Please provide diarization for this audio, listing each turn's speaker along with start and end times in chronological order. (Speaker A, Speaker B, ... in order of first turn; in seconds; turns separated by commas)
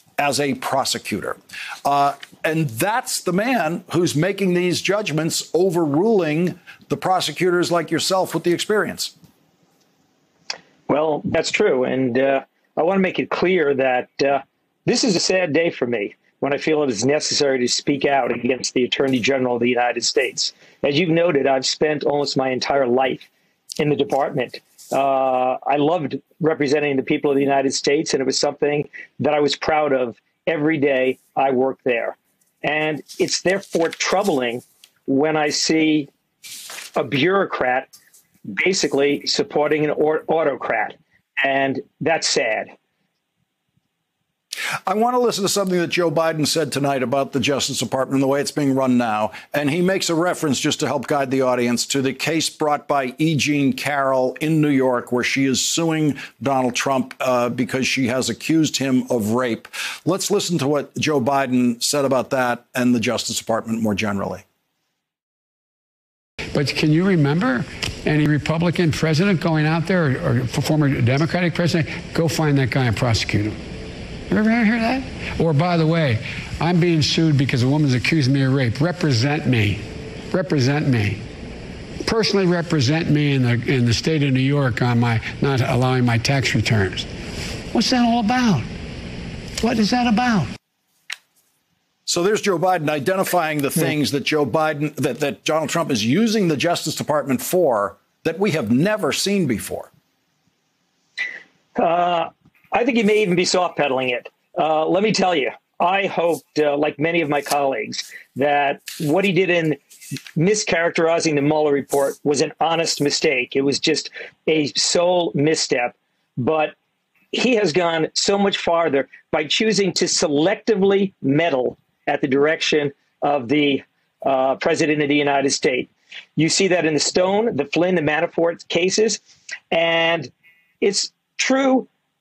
Speaker A: 0.2-9.1, Speaker B: 10.9-23.3, Speaker B: 23.8-36.1, Speaker B: 37.0-37.9, Speaker B: 38.5-42.7, Speaker A: 44.9-64.4, Speaker C: 66.5-73.6, Speaker C: 74.3-81.2, Speaker C: 82.0-87.1, Speaker C: 87.7-88.7, Speaker C: 89.6-90.5, Speaker A: 92.0-99.9, Speaker B: 101.8-109.8, Speaker B: 110.3-116.7, Speaker B: 117.3-131.9